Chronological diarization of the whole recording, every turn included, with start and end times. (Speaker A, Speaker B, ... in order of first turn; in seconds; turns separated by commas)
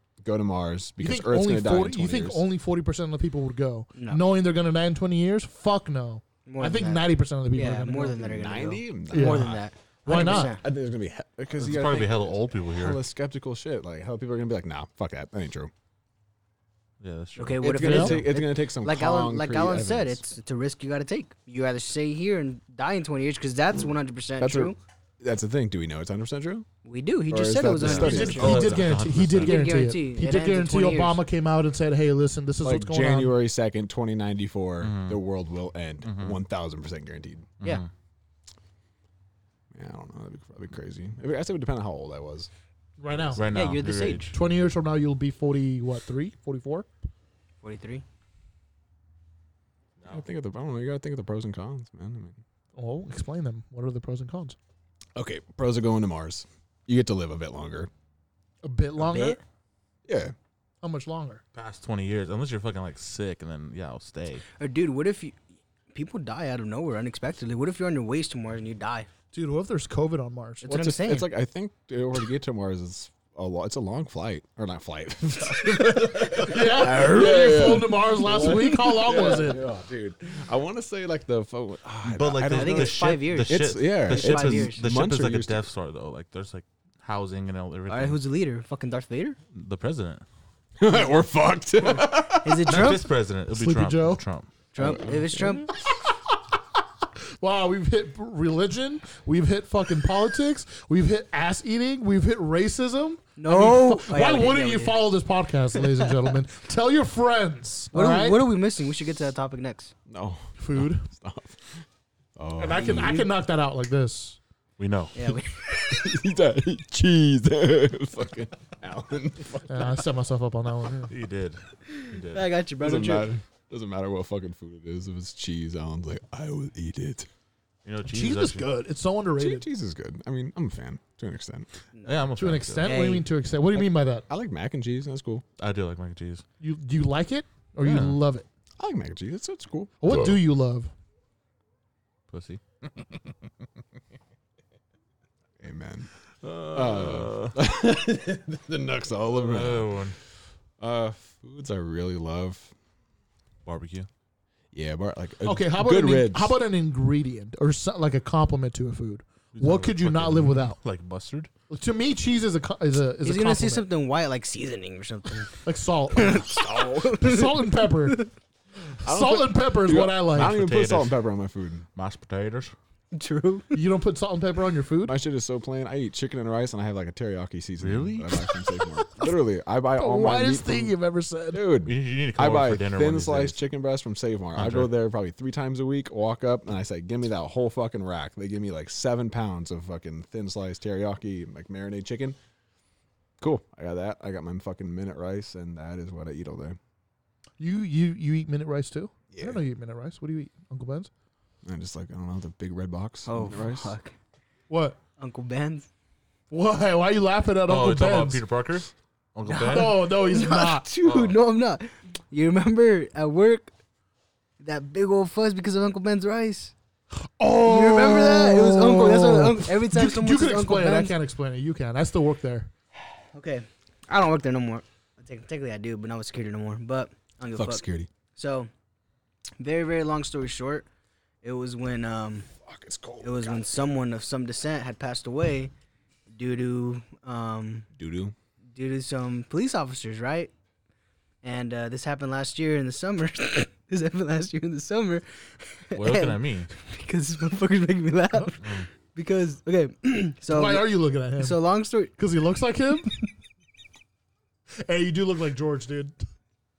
Speaker A: 0.2-2.4, Speaker B: 1.0-8.3, Speaker C: 3.9-4.2, Speaker C: 6.5-10.6, Speaker A: 8.3-15.7, Speaker B: 9.1-9.5, Speaker B: 10.1-10.5, Speaker D: 11.6-13.0, Speaker D: 17.0-18.1, Speaker C: 17.4-24.8, Speaker A: 17.6-20.2, Speaker B: 17.8-18.2, Speaker A: 24.4-26.6, Speaker C: 26.8-28.7, Speaker A: 27.3-28.9, Speaker D: 27.8-29.8, Speaker B: 27.9-33.3, Speaker C: 29.4-31.2, Speaker A: 32.6-37.5, Speaker D: 34.8-35.2, Speaker D: 36.0-36.4, Speaker D: 37.6-37.9, Speaker A: 39.7-42.5, Speaker B: 43.0-43.4, Speaker D: 43.3-44.3, Speaker C: 43.5-44.3, Speaker B: 44.3-46.9, Speaker C: 47.6-48.0, Speaker A: 50.1-52.4, Speaker B: 52.8-54.5, Speaker A: 55.1-57.9, Speaker B: 58.6-59.4, Speaker C: 59.0-59.4, Speaker A: 60.0-60.3, Speaker B: 60.8-61.4, Speaker D: 61.5-64.4, Speaker C: 64.6-65.4, Speaker C: 65.9-69.1, Speaker B: 69.3-70.7, Speaker C: 70.6-71.3, Speaker A: 70.7-85.6, Speaker B: 76.3-79.6, Speaker C: 77.0-77.7, Speaker C: 79.1-79.5, Speaker D: 82.0-88.2, Speaker C: 82.5-84.8, Speaker C: 87.9-89.4, Speaker D: 89.5-90.2, Speaker A: 90.8-92.8, Speaker C: 92.4-93.1, Speaker D: 92.7-94.5, Speaker B: 93.5-94.2, Speaker C: 94.7-95.7, Speaker A: 94.8-95.6, Speaker B: 97.4-108.5, Speaker C: 103.4-105.0, Speaker C: 107.9-109.9, Speaker A: 110.1-111.8, Speaker B: 110.6-111.0, Speaker A: 112.3-113.3, Speaker B: 112.6-114.4, Speaker C: 112.8-113.2, Speaker D: 114.8-115.3, Speaker C: 115.1-116.0, Speaker A: 115.8-120.0, Speaker B: 119.7-121.1, Speaker D: 121.1-122.5, Speaker C: 121.9-123.3, Speaker A: 122.8-127.3, Speaker D: 127.8-128.7, Speaker B: 128.1-129.7, Speaker A: 129.4-131.7, Speaker D: 132.0-133.0, Speaker B: 132.3-134.2, Speaker C: 132.8-133.3, Speaker A: 133.8-135.4, Speaker D: 135.6-136.4, Speaker B: 136.6-138.4, Speaker D: 137.8-138.2, Speaker A: 138.8-140.4, Speaker B: 140.0-140.9, Speaker D: 142.3-143.3, Speaker A: 145.6-150.1, Speaker D: 146.4-147.5, Speaker D: 149.4-150.2, Speaker A: 150.8-152.7, Speaker D: 153.6-154.1, Speaker A: 154.7-156.5, Speaker B: 155.4-160.8, Speaker D: 159.5-161.5, Speaker B: 161.7-163.8, Speaker C: 163.2-165.5, Speaker B: 165.6-166.5, Speaker C: 166.1-168.3, Speaker A: 166.2-167.2, Speaker B: 167.1-168.2, Speaker B: 169.0-170.5, Speaker A: 169.0-171.8, Speaker D: 170.3-171.2, Speaker D: 171.9-172.7, Speaker C: 173.1-173.8, Speaker B: 173.7-175.2, Speaker A: 175.0-180.9, Speaker D: 177.8-178.4, Speaker B: 180.0-181.7, Speaker A: 181.5-192.4, Speaker D: 181.8-183.6, Speaker D: 184.5-184.9, Speaker A: 193.4-196.8, Speaker B: 197.6-201.1, Speaker A: 199.3-199.6, Speaker A: 201.6-203.9, Speaker C: 203.3-204.1, Speaker B: 204.7-205.0, Speaker C: 205.2-205.9, Speaker B: 206.5-208.4, Speaker D: 207.7-210.0, Speaker C: 209.4-213.7, Speaker B: 209.7-210.8, Speaker D: 211.0-211.3, Speaker C: 214.6-216.7, Speaker B: 217.4-222.7, Speaker C: 217.6-221.1, Speaker C: 223.3-228.7, Speaker A: 227.5-228.1, Speaker C: 229.6-230.8, Speaker C: 231.4-232.5, Speaker A: 232.6-233.7, Speaker C: 233.2-235.7, Speaker C: 236.3-237.9, Speaker A: 238.0-238.3, Speaker C: 238.7-240.5, Speaker C: 241.4-252.1, Speaker D: 245.9-246.7, Speaker D: 248.6-248.9, Speaker B: 250.5-251.6, Speaker B: 252.2-253.1, Speaker B: 254.8-256.2